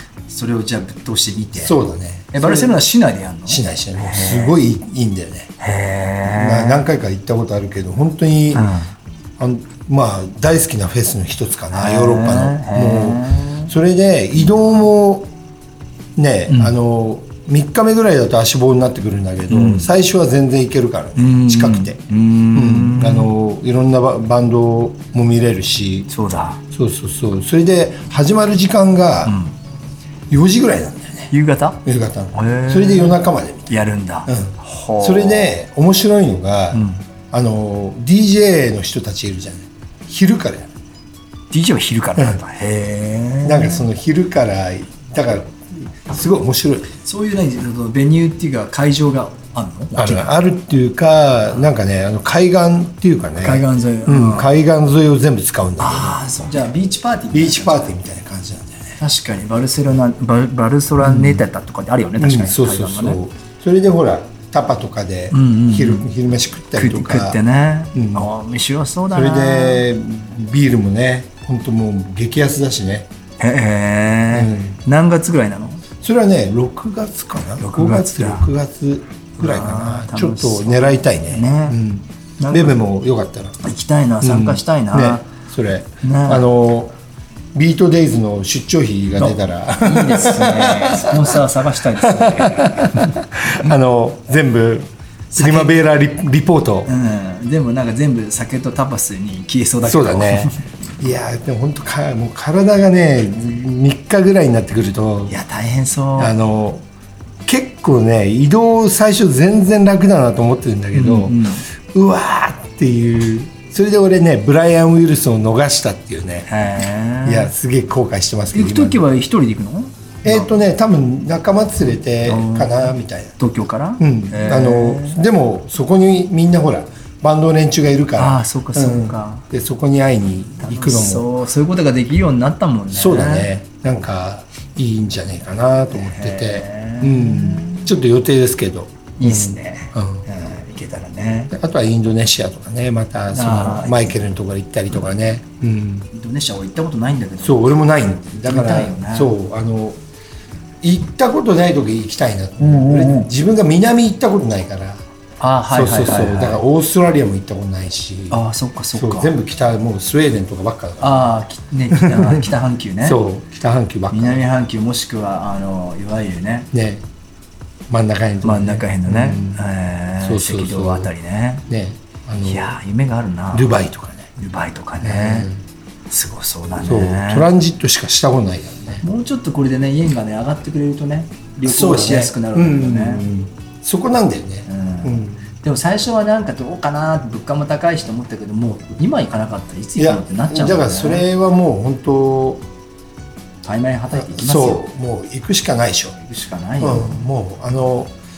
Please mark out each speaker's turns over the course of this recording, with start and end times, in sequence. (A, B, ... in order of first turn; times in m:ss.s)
0:00.3-0:01.8 A
0:01.6-0:02.8 B
0:02.3-0:04.6 A
0:03.5-0:05.5 B
0:05.6-0:06.8 A
0:06.2-0:08.7 B
0:08.5-0:08.9 A
0:09.4-0:15.3 B
0:11.7-0:13.7 A
0:16.2-0:22.0 B
0:16.5-0:16.7 A
0:19.5-0:19.9 A
0:21.2-0:23.3 A
0:22.5-0:26.1 B
0:26.1-0:26.6 A
0:26.7-0:29.4 B
0:29.2-0:29.5 A
0:30.3-0:31.3 B
0:31.3-0:31.8 A
0:31.8-0:33.7 B
0:32.3-0:35.6 A
0:34.3-0:40.7 B
0:36.7-0:37.0 A
0:41.5-0:43.9 A
0:43.4-0:46.9 B
0:47.0-0:50.4 A
0:50.0-0:56.4 B
0:53.4-0:54.5 A
0:55.8-0:57.9 A
0:57.3-0:59.0 B
0:59.0-1:03.2 A
1:01.0-1:01.4 B
1:02.2-1:07.4 B
1:05.3-1:06.1 A
1:06.7-1:09.8 A
1:07.9-1:08.3 B
1:09.1-1:13.1 B
1:13.4-1:15.8 A
1:14.3-1:14.8 B
1:16.0-1:23.6 B
1:17.6-1:18.5 A
1:19.4-1:21.8 A
1:22.4-1:22.8 A
1:23.6-1:25.2 A
1:24.2-1:27.0 B
1:26.0-1:26.4 A
1:27.5-1:36.9 B
1:29.2-1:33.2 A
1:35.3-1:35.8 A
1:36.8-1:40.6 A
1:39.8-1:45.4 B
1:45.3-1:46.4 A
1:46.2-1:46.8 B
1:47.4-1:56.5 B
1:50.9-1:51.6 A
1:56.5-1:57.5 A
1:57.2-1:59.0 B
1:58.5-2:00.5 A
2:00.2-2:03.3 B
2:02.2-2:05.2 A
2:04.0-2:11.3 B
2:08.2-2:09.4 A
2:10.6-2:13.5 A
2:12.9-2:20.2 B
2:15.9-2:17.9 A
2:19.2-2:21.5 A
2:21.5-2:26.1 B
2:23.3-2:24.2 A
2:26.1-2:29.3 A
2:27.4-2:30.0 B
2:30.8-2:35.0 B
2:32.6-2:33.3 A
2:35.4-2:36.6 A
2:35.7-2:41.4 B
2:38.3-2:39.3 A
2:41.0-2:43.2 A
2:41.9-2:44.4 B
2:44.1-2:46.7 A
2:46.7-2:47.0 B
2:47.9-2:49.6 B
2:48.4-2:51.6 A
2:50.2-2:51.1 B
2:51.7-2:52.8 B
2:52.4-2:53.8 A
2:53.5-2:54.3 B
2:54.4-2:55.5 A
2:55.0-2:55.6 B
2:56.1-2:57.5 A
2:56.8-2:59.0 B
2:59.0-3:03.3 A
3:01.6-3:05.4 B
3:04.7-3:11.3 A
3:10.0-3:12.6 B
3:13.6-3:14.8 A
3:14.1-3:16.2 B
3:16.2-3:17.2 A
3:16.8-3:18.1 B